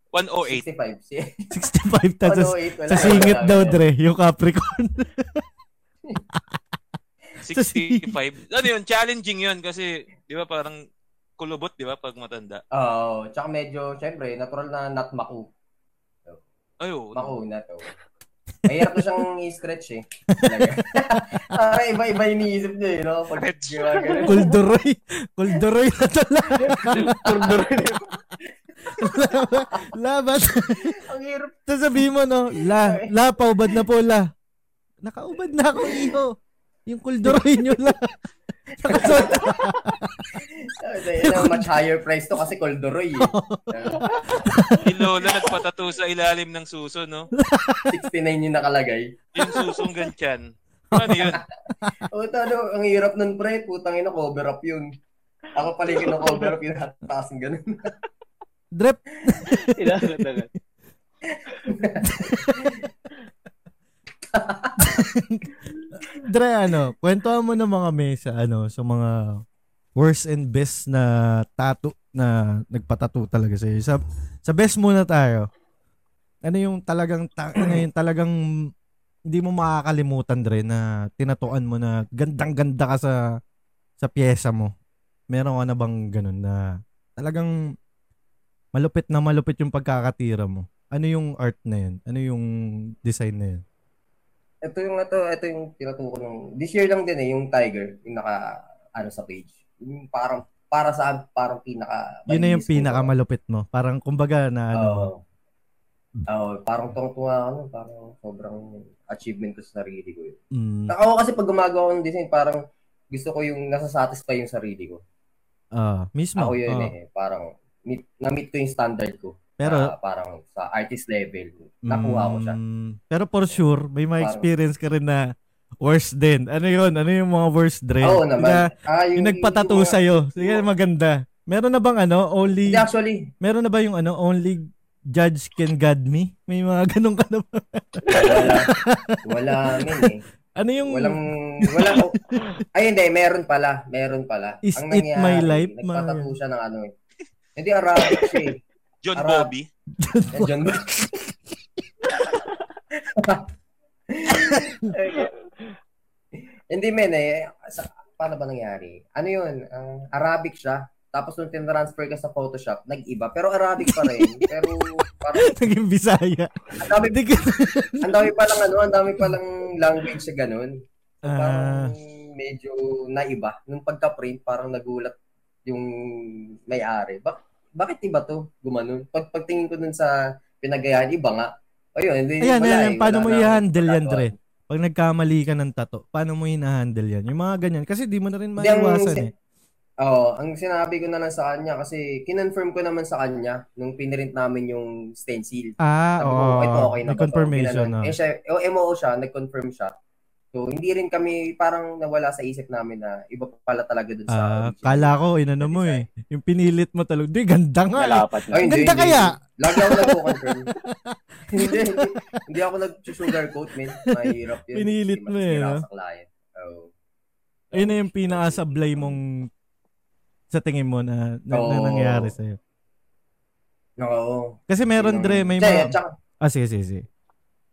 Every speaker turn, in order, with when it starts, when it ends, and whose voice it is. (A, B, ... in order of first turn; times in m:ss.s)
0:00.1-0:00.6 A
0:00.4-0:01.4 B
0:01.5-0:05.4 C
0:02.2-0:03.8 B
0:07.4-0:10.8 A
0:07.5-0:08.2 C
0:11.4-0:12.6 A
0:12.7-0:15.5 B
0:16.8-0:17.3 A
0:17.1-0:17.9 B
0:18.7-0:19.1 C
0:18.7-0:24.5 B
0:20.3-0:20.8 C
0:23.3-0:24.2 A
0:24.2-0:27.4 C
0:26.6-0:28.1 D
0:27.3-0:27.5 B
0:28.9-0:31.0 C
0:28.9-0:29.2 B
0:30.8-0:31.6 B
0:31.7-0:34.3 C
0:32.6-0:33.1 B
0:35.0-0:36.3 C
0:35.8-0:36.1 B
0:36.9-0:38.1 C
0:38.8-0:40.3 C
0:38.8-0:39.6 B
0:40.4-0:44.4 B
0:41.2-0:41.7 C
0:43.2-0:45.3 C
0:44.8-0:47.3 A
0:47.4-0:47.9 C
0:47.9-0:49.1 B
0:49.4-0:51.4 A
0:49.4-0:49.9 C
0:50.9-0:51.9 C
0:52.1-0:54.9 B
0:55.6-0:57.9 B
0:58.7-1:00.3 C
0:59.7-1:00.5 D
1:01.3-1:02.8 B
1:02.0-1:02.7 C
1:04.3-1:05.0 B
1:04.8-1:05.5 C
1:06.1-1:09.4 C
1:10.0-1:15.5 C
1:16.4-1:18.4 C
1:19.3-1:23.2 C
1:24.0-1:24.7 C
1:25.3-1:27.7 C
1:28.7-1:32.5 C
1:33.0-1:33.6 C
1:34.6-1:43.1 B
1:42.3-1:45.1 C
1:44.8-1:45.2 B
1:46.3-1:50.4 B
1:50.5-1:50.9 C
1:50.9-1:52.6 B
1:53.1-1:55.0 B
1:55.7-1:56.9 C
1:56.4-2:02.6 B
1:59.6-1:59.9 C
2:01.9-2:05.3 C
2:04.2-2:04.5 B
2:05.8-2:12.9 C
2:08.0-2:10.6 B
2:12.7-2:13.3 B
2:13.4-2:22.6 C
2:18.1-2:18.7 B
2:19.2-2:20.2 B
2:20.8-2:22.2 B
2:22.7-2:26.9 B
2:24.6-2:26.3 C
2:27.6-2:28.6 B
2:29.0-2:29.7 A
2:29.2-2:29.5 B
2:30.0-2:31.1 C
2:30.3-2:31.1 B
2:33.0-2:33.5 B
2:34.1-2:35.3 B
2:34.5-2:34.9 C
2:36.7-2:45.5 B
2:43.9-2:44.5 C
2:45.4-2:48.3 C
2:46.8-2:47.2 B
2:48.0-2:50.7 B
2:51.2-2:55.2 B
2:51.3-2:51.9 C
2:55.7-3:04.3 B
3:02.4-3:09.3 C
3:08.6-3:09.3 B
3:10.0-3:19.9 B
3:15.8-3:18.1 C
3:20.5-3:26.1 B
3:24.3-3:32.1 C
3:28.0-3:28.7 D
3:28.5-3:30.7 B
3:31.5-3:36.9 B
3:34.7-3:35.8 C
3:37.7-3:39.2 B
3:37.7-3:39.5 C
3:40.5-3:42.6 C
3:41.5-3:42.3 B
3:44.0-3:46.1 B
3:44.7-3:47.1 C